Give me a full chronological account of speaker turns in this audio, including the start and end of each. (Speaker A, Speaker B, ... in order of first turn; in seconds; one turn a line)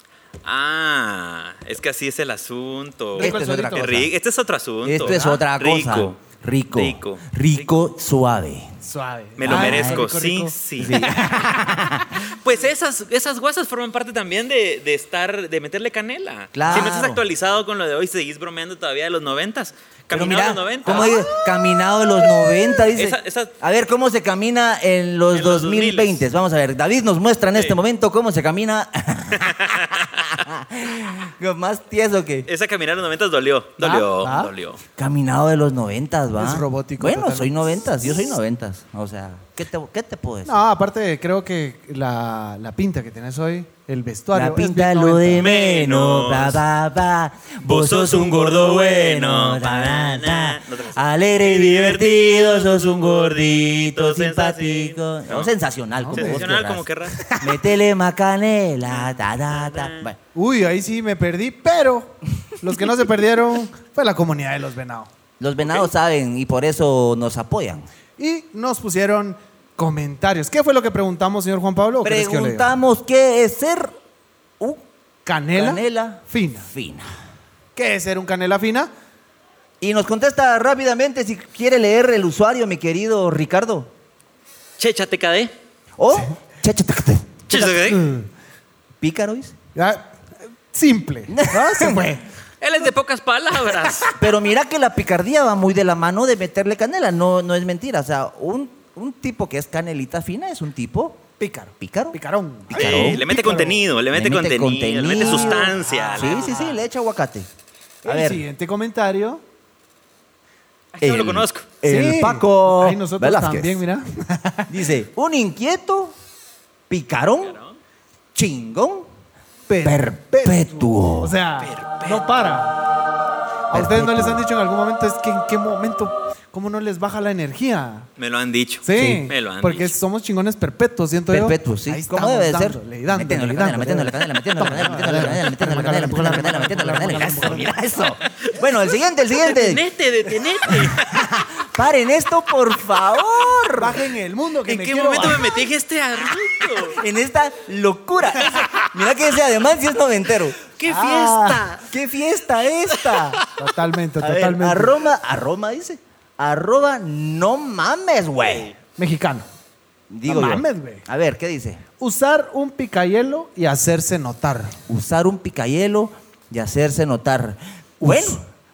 Speaker A: 0.4-6.2
Speaker B: 3.2-3.9
Speaker C: 3.2-4.1
Speaker C: 4.8-8.8
Speaker B: 5.0-5.4
Speaker A: 6.7-7.3
Speaker B: 8.8-10.6
Speaker A: 9.4-11.3
Speaker C: 9.4-10.1
Speaker C: 10.8-12.2
Speaker A: 12.2-21.3
Speaker C: 16.5-17.2
Speaker B: 16.7-16.9
Speaker C: 20.1-32.5
Speaker A: 22.9-23.5
Speaker A: 25.3-26.2
Speaker A: 29.3-30.2
Speaker A: 32.5-34.8
Speaker B: 33.8-34.5
Speaker C: 35.0-40.6
Speaker B: 36.4-38.1
Speaker B: 40.5-45.5
Speaker C: 44.3-60.2
Speaker A: 45.4-46.6
Speaker A: 47.6-55.5
Speaker B: 56.0-56.5
Speaker A: 56.1-57.3
Speaker A: 58.9-60.1
Speaker B: 60.4-65.1
Speaker C: 65.4-67.9
Speaker B: 68.2-72.7
Speaker C: 72.0-73.9
Speaker B: 75.2-76.7
Speaker C: 75.5-77.1
Speaker B: 77.8-78.9
Speaker C: 79.8-83.9
Speaker A: 84.8-85.5
Speaker C: 86.0-87.5
Speaker A: 87.5-88.1
Speaker B: 87.5-88.3
Speaker C: 89.0-89.5
Speaker B: 89.8-90.2
Speaker B: 90.7-92.3
Speaker C: 91.3-92.1
Speaker A: 92.6-94.2
Speaker C: 94.2-101.2
Speaker B: 101.4-103.8
Speaker C: 101.8-103.3
Speaker A: 102.7-106.6
Speaker C: 104.1-107.5
Speaker B: 105.3-106.8
Speaker B: 108.0-109.4
Speaker C: 108.0-108.4
Speaker A: 111.0-111.7
Speaker C: 111.0-113.8
Speaker B: 111.8-114.8
Speaker C: 114.7-116.2
Speaker C: 116.9-117.6
Speaker A: 117.4-117.8
Speaker C: 118.3-119.1
Speaker B: 119.7-122.8
Speaker C: 119.8-121.3
Speaker A: 121.6-122.3
Speaker B: 123.7-128.1
Speaker C: 123.7-124.4
Speaker A: 128.2-129.9
Speaker B: 128.8-137.8
Speaker C: 131.3-139.8
Speaker A: 139.3-141.3
Speaker C: 140.7-144.0
Speaker B: 143.8-145.6
Speaker A: 144.7-147.0
Speaker C: 146.8-150.6
Speaker A: 148.4-148.9
Speaker A: 150.8-151.9
Speaker B: 150.9-151.6
Speaker C: 151.8-153.4
Speaker A: 152.9-153.4
Speaker B: 153.5-155.0
Speaker C: 154.2-158.7
Speaker A: 158.4-158.8
Speaker B: 159.0-159.5
Speaker C: 160.1-161.8
Speaker B: 160.3-161.1
Speaker B: 162.0-164.8
Speaker C: 164.9-168.4
Speaker B: 168.0-168.4